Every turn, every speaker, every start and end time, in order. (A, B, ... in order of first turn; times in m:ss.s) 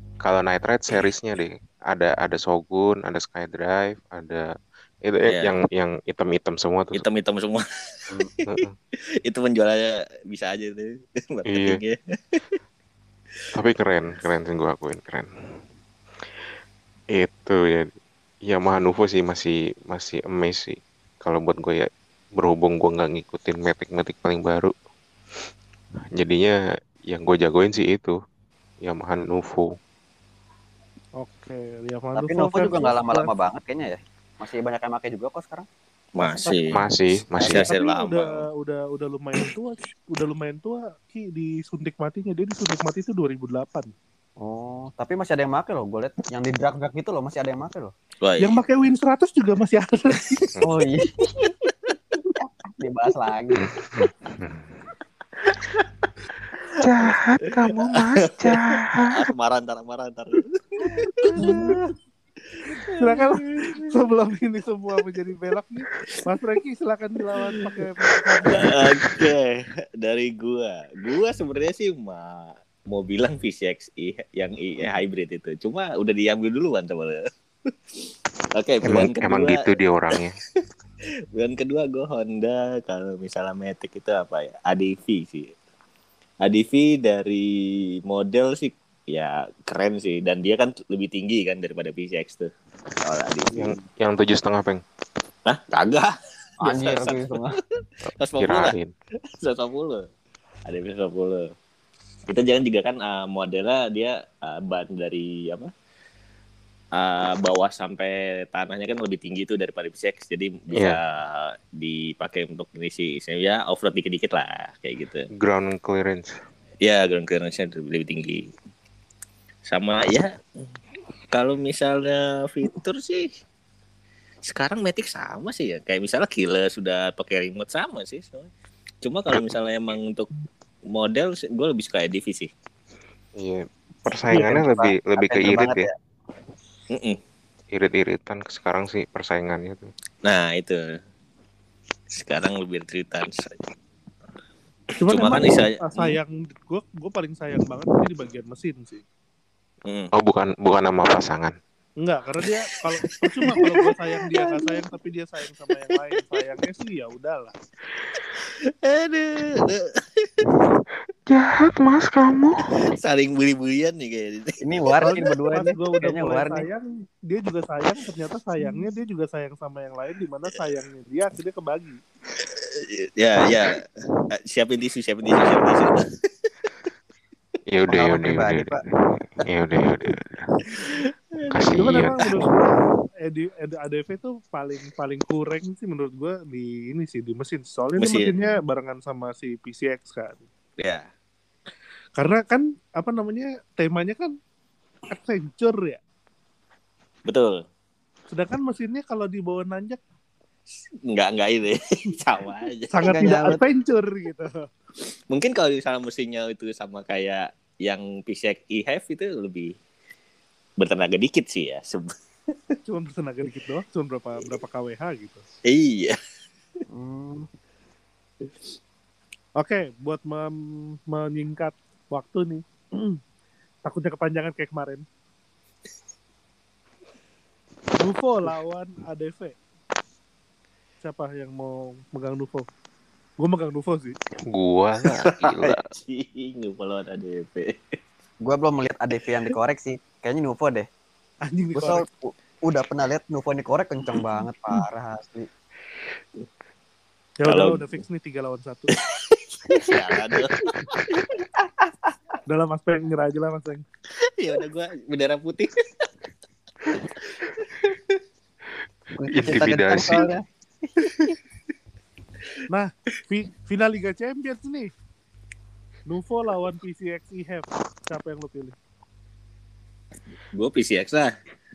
0:00.2-0:07.0 A
0:05.2-0:05.6 B
0:06.9-0:08.6 B
0:08.4-0:08.7 A
0:09.2-0:12.4 B
0:11.5-0:11.8 A
0:13.5-0:15.3 A
0:17.1-0:17.9 A
0:18.4-0:24.7 A
0:26.1-0:28.2 A
0:28.8-0:29.8 A
0:31.2-0:33.3 C
0:32.2-0:35.7 D
0:36.2-0:36.8 B
0:36.7-0:37.6 A
0:37.4-0:38.4 B
0:37.6-0:43.9 C
0:44.4-0:47.9 D
0:48.2-0:48.6 B
0:48.4-0:50.4 C
0:50.6-0:51.1 D
0:52.4-0:53.7 D
0:53.5-0:54.6 A
0:55.6-0:55.8 B
0:56.8-0:59.3 A
0:57.6-1:01.9 B
1:01.4-1:01.7 C
1:01.4-1:01.8 D
1:02.8-1:03.9 B
1:03.0-1:08.9 C
1:08.4-1:17.7 B
1:18.5-1:20.6 B
1:18.8-1:20.4 A
1:21.3-1:25.5 B
1:26.4-1:27.5 B
1:28.1-1:32.5 B
1:33.0-1:33.7 B
1:33.5-1:34.8 A
1:35.4-1:38.7 B
1:36.6-1:37.6 D
1:38.1-1:38.9 A
1:39.4-1:40.0 B
1:40.6-1:41.5 B
1:42.3-1:45.7 B
1:47.0-1:55.3 B
1:50.7-1:51.0 A
1:55.3-1:56.4 A
1:56.8-1:58.5 B
1:59.7-2:00.3 B
2:01.3-2:03.3 B
2:04.5-2:08.5 B
2:09.0-2:10.3 B
2:10.9-2:12.5 B
2:13.4-2:15.8 A
2:14.3-2:15.9 D
2:16.9-2:17.2 B
2:17.7-2:19.9 A
2:20.2-2:20.8 B
2:22.1-2:23.7 B
2:25.0-2:29.0 C
2:25.1-2:26.2 B
2:29.8-2:30.1 B
2:30.1-2:31.5 A
2:32.0-2:37.5 C
2:33.4-2:33.7 B
2:34.4-2:34.7 B
2:38.1-2:40.5 B
2:41.3-2:42.8 A
2:42.8-2:44.6 B
2:44.6-2:46.6 D
2:45.0-2:52.0 C
2:52.4-2:56.2 B
2:57.7-3:00.5 A
2:57.9-2:58.8 D
3:00.8-3:01.7 B
3:01.5-3:02.2 A
3:01.7-3:10.4 C
3:08.0-3:08.3 B
3:10.8-3:11.0 B
3:12.2-3:14.3 C
3:15.1-3:16.0 C
3:17.3-3:17.6 B
3:18.3-3:20.0 C
3:21.1-3:23.1 B
3:22.9-3:24.7 C
3:23.0-3:23.6 D
3:25.3-3:29.7 B
3:30.8-3:32.7 B
3:32.8-3:35.4 C
3:35.6-3:36.2 B
3:36.9-3:37.5 D
3:39.6-3:40.5 C
3:41.1-3:43.2 C
3:43.8-3:45.0 C
3:48.0-3:49.5 C
3:51.0-3:52.6 C
3:53.4-3:54.2 C
3:54.5-3:55.8 A
3:55.1-3:58.0 B
3:58.4-4:00.9 D
4:01.5-4:02.0 C
4:01.7-4:05.5 D
4:04.1-4:04.8 B
4:07.4-4:08.9 C
4:07.4-4:07.8 B
4:09.0-4:11.0 B
4:12.5-4:13.8 C
4:14.2-4:16.1 B
4:17.3-4:18.2 B
4:19.2-4:20.4 D
4:19.3-4:20.3 A
4:21.0-4:21.3 B
4:22.7-4:24.9 C
4:26.1-4:28.7 C
4:30.5-4:31.3 B